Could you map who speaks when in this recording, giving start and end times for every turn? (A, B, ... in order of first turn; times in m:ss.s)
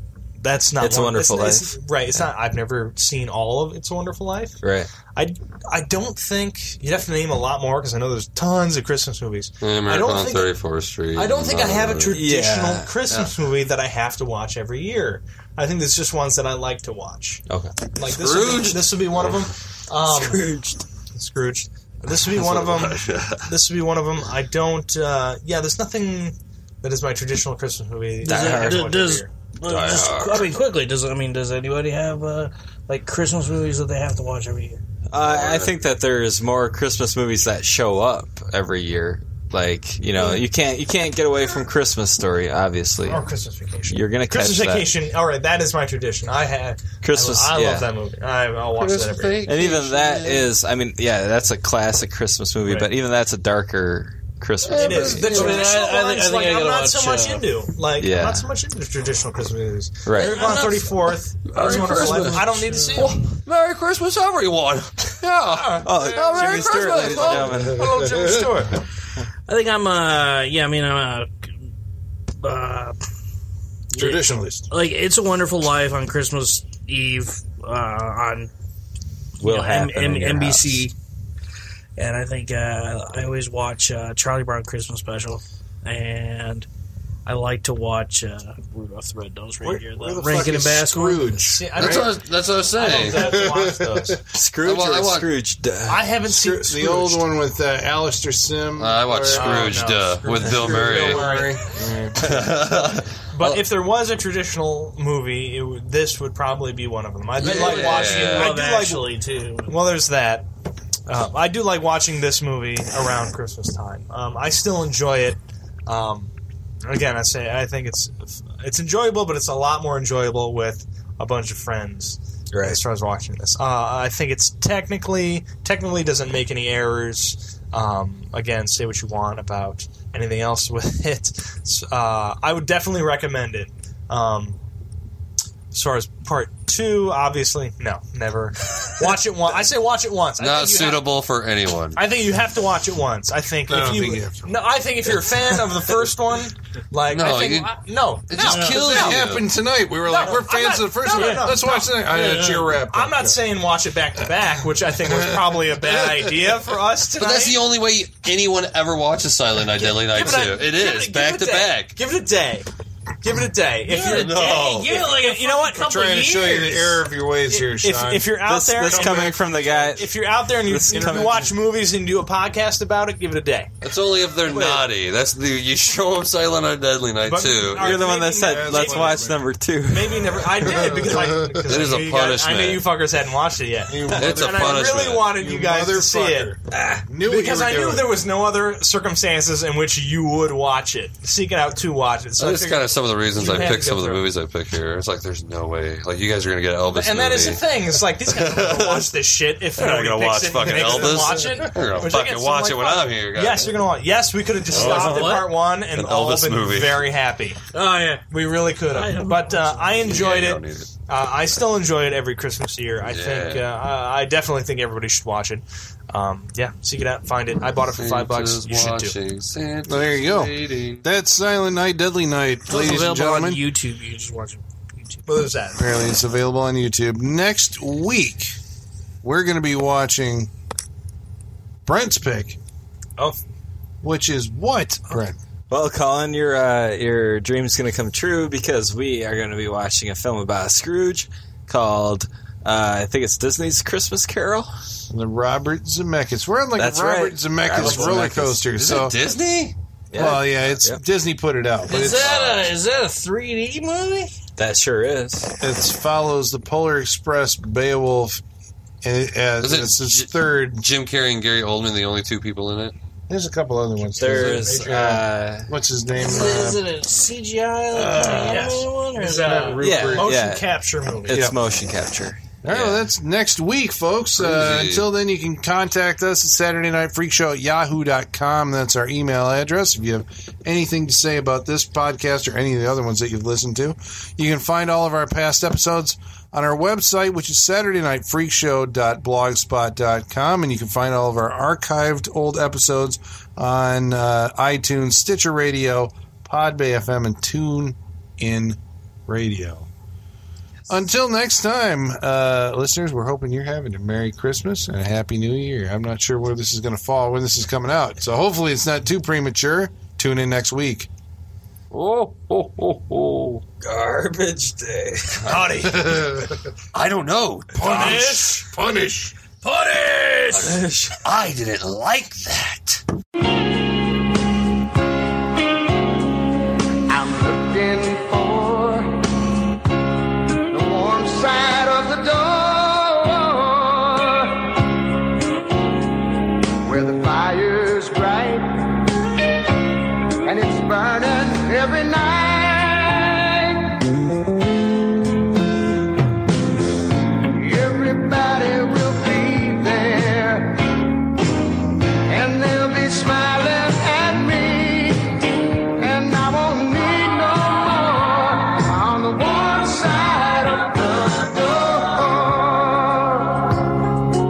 0:00.4-0:04.6 A
0:00.8-0:02.2 B
0:04.6-0:04.9 B
0:05.1-0:10.5 A
0:09.6-0:12.2 C
0:11.2-0:17.4 A
0:12.1-0:13.0 B
0:17.5-0:17.8 B
0:18.0-0:20.5 A
0:18.0-0:19.5 C
0:20.0-0:20.8 B
0:21.1-0:29.3 A
0:22.2-0:23.5 C
0:28.2-0:34.8 D
0:28.2-0:28.9 B
0:29.6-0:30.5 B
0:35.1-0:43.2 B
0:35.2-0:35.7 C
0:40.2-0:40.4 A
0:43.1-0:49.5 A
0:43.9-0:44.9 B
0:47.0-0:47.9 B
0:48.8-0:50.5 C
0:49.4-0:55.5 B
0:52.6-0:52.9 A
0:54.7-0:55.7 C
0:54.7-1:03.2 A
0:55.2-0:57.5 D
0:58.0-0:58.5 B
1:00.0-1:00.4 B
1:00.2-1:00.9 D
1:01.5-1:07.7 C
1:01.6-1:03.1 D
1:05.5-1:08.8 A
1:05.8-1:08.0 B
1:07.9-1:08.5 E
1:09.5-1:11.5 D
1:12.4-1:13.0 D
1:13.9-1:14.7 E
1:14.0-1:18.5 D
1:19.4-1:20.9 B
1:19.4-1:20.9 D
1:22.0-1:26.7 D
1:27.3-1:31.4 D
1:29.6-1:32.1 E
1:31.3-1:34.2 A
1:31.8-1:33.4 C
1:32.9-1:34.2 E
1:34.3-1:36.1 B
1:34.6-1:35.3 C
1:35.9-1:37.2 A
1:36.3-1:39.8 E
1:38.8-1:41.2 C
1:39.3-1:41.7 A
1:40.3-1:42.4 E
1:42.2-1:43.6 C
1:43.3-1:49.2 A
1:47.4-1:48.6 C
1:47.4-1:49.8 D
1:49.7-1:50.5 A
1:51.1-1:56.3 A
1:56.8-2:14.6 A
2:02.5-2:02.8 B
2:15.7-2:21.0 A
2:20.4-2:22.0 C
2:22.0-2:29.2 A
2:23.7-2:24.5 E
2:27.1-2:27.8 C
2:28.3-2:29.4 C
2:28.4-2:28.9 D
2:28.7-2:33.4 E
2:30.0-2:37.6 A
2:32.1-2:32.7 D
2:35.0-2:36.2 E
2:37.2-2:42.0 C
2:39.8-2:42.7 A
2:43.2-2:46.0 A
2:43.9-2:47.0 D
2:44.0-2:44.9 C
2:45.8-2:48.2 E
2:47.5-2:53.7 A
2:48.4-2:51.5 B
2:51.0-2:51.4 E
2:53.8-2:58.0 C
2:54.5-2:54.8 A
2:57.2-2:59.3 A
2:57.8-3:00.6 B
2:58.1-2:59.4 E
2:59.9-3:06.6 A
3:00.6-3:01.7 E
3:01.6-3:02.9 C
3:03.9-3:08.1 E
3:04.1-3:05.3 C
3:06.8-3:07.0 B
3:07.2-3:14.2 A
3:12.4-3:17.7 C
3:16.9-3:27.6 A
3:18.3-3:19.1 C
3:19.8-3:23.7 C
3:20.8-3:21.7 E
3:24.7-3:27.0 C
3:24.7-3:25.5 D
3:27.7-3:28.3 D
3:28.3-3:39.2 A
3:28.8-3:30.0 D
3:30.0-3:30.9 C
3:33.0-3:33.6 C
3:38.0-3:41.0 C
3:39.9-3:43.6 E
3:42.7-3:45.2 D
3:45.3-3:45.8 A
3:45.8-3:48.6 E
3:49.2-3:50.5 E
3:51.9-3:52.6 E
3:54.0-3:55.4 E
3:55.7-4:04.7 B
4:05.1-4:09.2 E
4:06.8-4:08.6 B
4:07.7-4:09.8 C
4:10.1-4:11.0 B
4:10.1-4:12.4 E
4:11.9-4:14.3 D
4:11.9-4:12.8 C
4:14.6-4:15.5 B
4:15.6-4:18.4 E
4:19.0-4:20.9 E
4:19.6-4:23.0 C
4:23.3-4:26.8 E
4:24.1-4:25.7 B
4:24.2-4:24.8 A
4:26.1-4:29.8 D
4:27.9-4:28.4 E
4:28.1-4:31.5 A
4:29.4-4:30.4 E
4:29.8-4:30.7 B
4:31.2-4:33.1 B
4:32.6-4:59.9 E
4:34.4-4:35.1 C
5:00.9-5:11.1 E
5:11.9-5:13.6 C
5:13.8-5:15.5 B
5:15.4-5:15.7 C
5:15.4-5:16.1 A
5:15.8-5:16.7 E
5:16.9-5:18.4 C
5:17.7-5:19.4 E
5:17.8-5:18.6 A
5:19.6-5:20.8 D
5:20.5-5:23.0 C
5:20.6-5:21.2 B
5:27.1-5:29.2 F
5:30.7-5:34.7 F
5:36.8-5:38.8 F
5:40.4-5:44.0 F
5:47.4-5:51.0 F
5:52.3-6:03.7 F